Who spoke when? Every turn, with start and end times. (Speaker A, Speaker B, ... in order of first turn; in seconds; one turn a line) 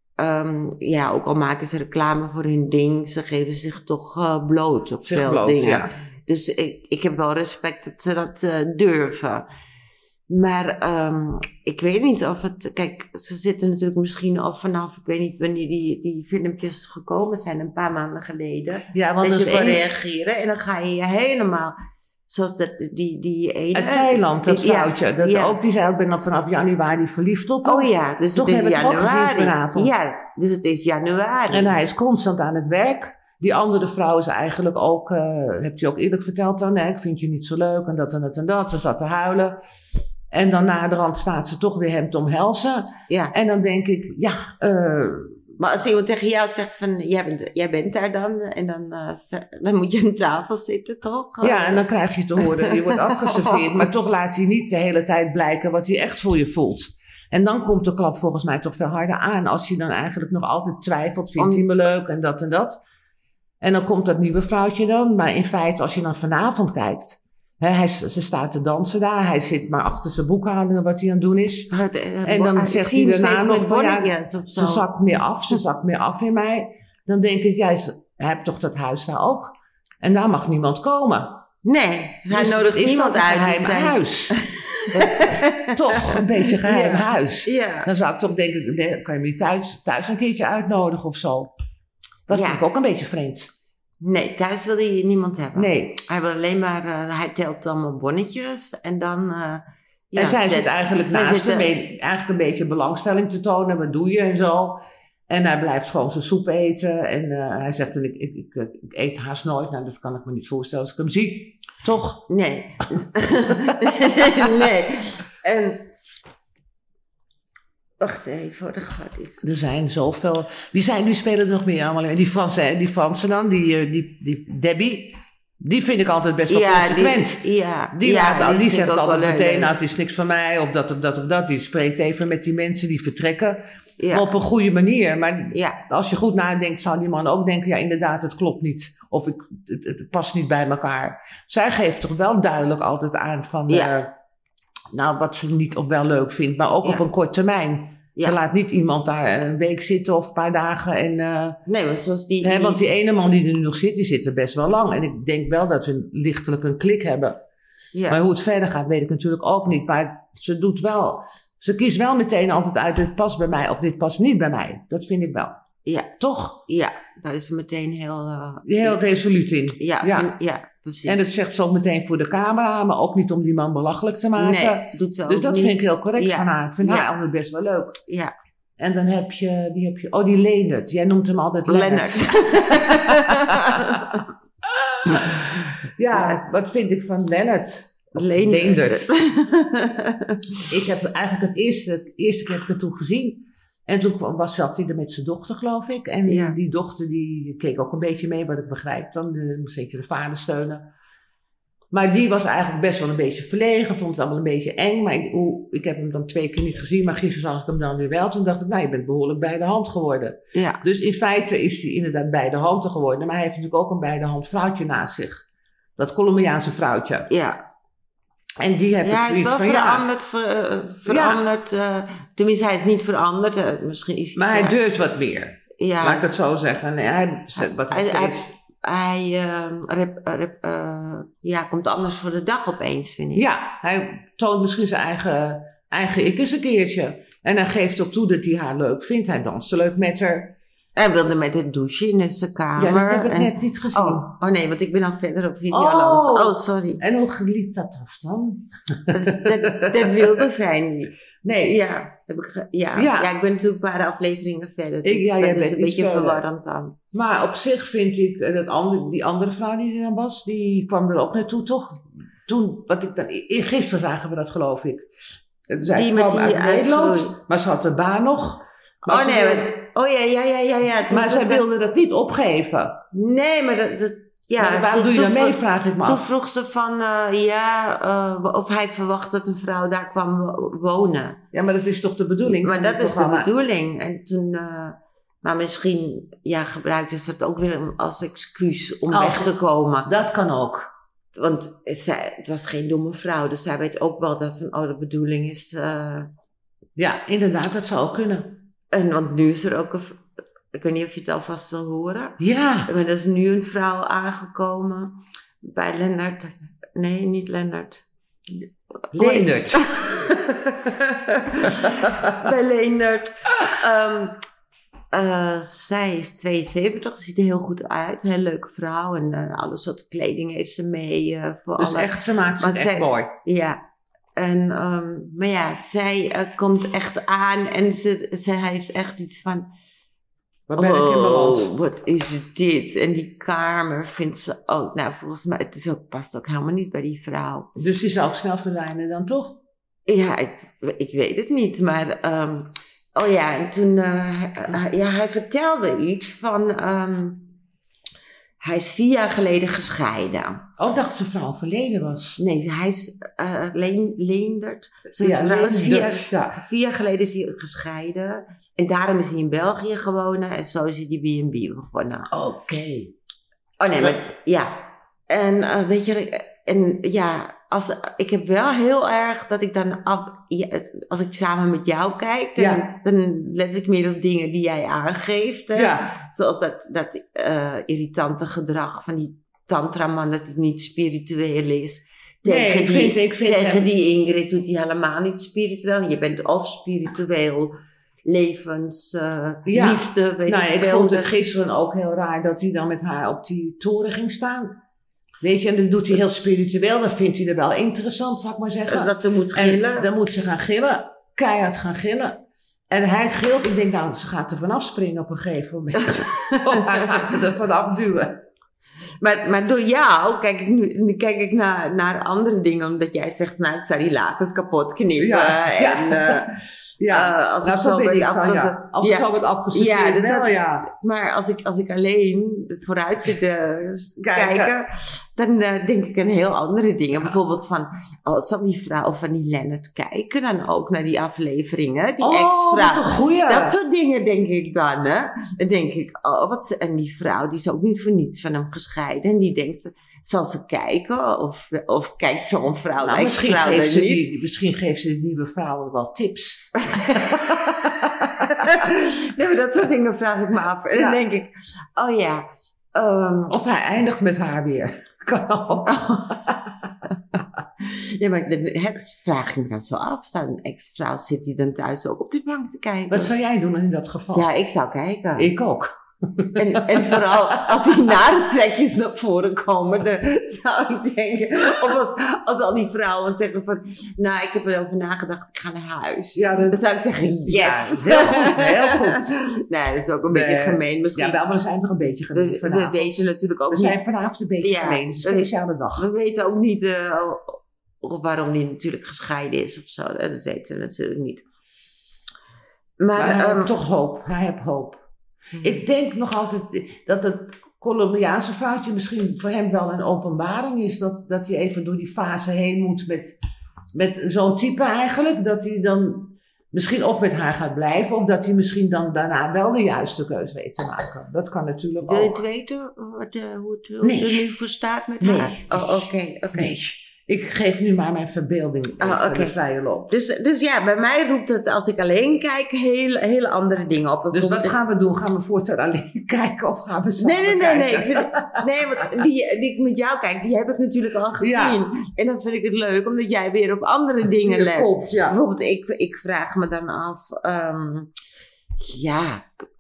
Speaker A: 0.2-9.4
Speaker B: 5.0-5.9
Speaker A: 10.3-21.7
Speaker B: 18.9-19.9
Speaker A: 22.3-25.6
Speaker B: 23.7-29.9
Speaker A: 27.6-31.8
Speaker B: 31.5-39.6
Speaker B: 40.3-45.5
Speaker A: 43.1-43.3
Speaker A: 45.6-51.9
Speaker B: 51.4-62.8
Speaker A: 52.4-53.9
Speaker A: 61.4-61.6
Speaker B: 63.6-71.7
Speaker A: 71.7-74.9
Speaker B: 72.2-81.4
Speaker A: 81.6-87.9
Speaker B: 82.3-84.4
Speaker B: 84.9-91.5
Speaker B: 92.3-93.5
Speaker A: 92.3-92.7
Speaker A: 94.0-101.7
Speaker B: 95.5-96.0
Speaker B: 100.2-112.2
Speaker A: 112.3-115.9
Speaker B: 113.7-114.5
Speaker A: 118.0-119.4
Speaker B: 119.4-144.1
Speaker A: 126.5-129.7
Speaker A: 134.0-134.3
Speaker A: 135.5-135.8
Speaker A: 143.7-144.0
Speaker B: 144.9-151.6
Speaker A: 151.7-152.9
Speaker B: 152.4-157.4
Speaker A: 157.9-158.2
Speaker B: 158.1-165.6
Speaker A: 165.8-166.1
Speaker B: 166.2-166.6
Speaker A: 166.7-169.1
Speaker B: 168.7-170.3
Speaker A: 169.8-171.3
Speaker B: 171.1-178.0
Speaker A: 174.4-177.1
Speaker A: 178.1-178.3
Speaker B: 178.8-183.1
Speaker A: 181.7-184.2
Speaker B: 183.9-184.2
Speaker B: 185.0-189.1
Speaker A: 185.1-186.4
Speaker A: 188.2-190.6
Speaker B: 190.7-200.8
Speaker A: 196.3-196.6
Speaker B: 201.9-215.4
Speaker A: 210.5-210.8
Speaker B: 216.0-217.3
Speaker A: 217.3-217.6
Speaker B: 218.6-220.1
Speaker A: 219.0-224.8
Speaker B: 221.1-221.4
Speaker B: 224.4-228.5
Speaker A: 225.8-226.4
Speaker A: 227.6-233.5
Speaker B: 233.3-240.6
Speaker A: 240.9-247.0
Speaker B: 242.8-244.3
Speaker B: 245.7-250.4
Speaker A: 249.1-257.0
Speaker B: 251.4-251.8
Speaker B: 252.9-253.3
Speaker B: 255.0-256.4
Speaker B: 257.1-265.1
Speaker B: 265.7-269.7
Speaker A: 265.8-267.4
Speaker A: 269.1-271.6
Speaker B: 271.1-273.0
Speaker A: 273.1-281.4
Speaker B: 274.6-276.3
Speaker B: 281.5-283.5
Speaker A: 282.4-290.1
Speaker B: 289.1-289.5
Speaker B: 290.1-290.9
Speaker A: 291.4-296.3
Speaker B: 297.0-298.5
Speaker A: 298.9-300.2
Speaker A: 300.7-308.0
Speaker B: 302.4-302.9
Speaker A: 309.1-314.4
Speaker B: 309.1-309.9
Speaker A: 315.1-323.8
Speaker B: 321.8-323.3
Speaker A: 324.4-329.7
Speaker B: 330.7-331.7
Speaker A: 330.8-337.7
Speaker B: 337.8-339.6
Speaker A: 340.1-347.5
Speaker A: 348.6-350.6
Speaker B: 350.8-352.4
Speaker A: 352.4-362.3
Speaker B: 355.2-356.6
Speaker B: 362.3-363.1
Speaker A: 363.8-387.7
Speaker B: 364.0-364.2
Speaker B: 372.6-372.9
Speaker B: 375.7-376.1
Speaker B: 382.4-383.9
Speaker A: 388.3-391.3
Speaker B: 389.7-394.8
Speaker B: 395.4-402.4
Speaker A: 398.9-400.1
Speaker B: 402.9-408.4
Speaker A: 406.0-407.3
Speaker A: 409.2-416.5
Speaker B: 415.2-420.9
Speaker A: 417.1-444.3
Speaker B: 424.3-424.7
Speaker B: 432.2-433.8
Speaker B: 443.0-448.6
Speaker A: 446.9-453.6
Speaker B: 453.5-456.0
Speaker A: 455.9-456.6
Speaker A: 457.8-463.3
Speaker B: 463.1-464.5
Speaker A: 464.3-465.5
Speaker B: 465.4-468.1
Speaker A: 466.6-481.5
Speaker B: 476.4-476.8
Speaker B: 477.5-479.4
Speaker B: 480.3-486.1
Speaker A: 482.3-484.0
Speaker A: 484.6-491.4
Speaker A: 493.0-493.7
Speaker B: 493.1-495.0
Speaker A: 495.6-495.8
Speaker B: 495.6-503.4
Speaker B: 503.9-512.4
Speaker A: 512.0-516.8
Speaker B: 514.0-514.5
Speaker B: 515.2-520.1
Speaker A: 519.0-519.6
Speaker A: 520.1-524.8
Speaker B: 524.3-528.6
Speaker A: 527.2-538.1
Speaker B: 531.4-531.9
Speaker B: 534.4-535.4
Speaker A: 538.8-539.5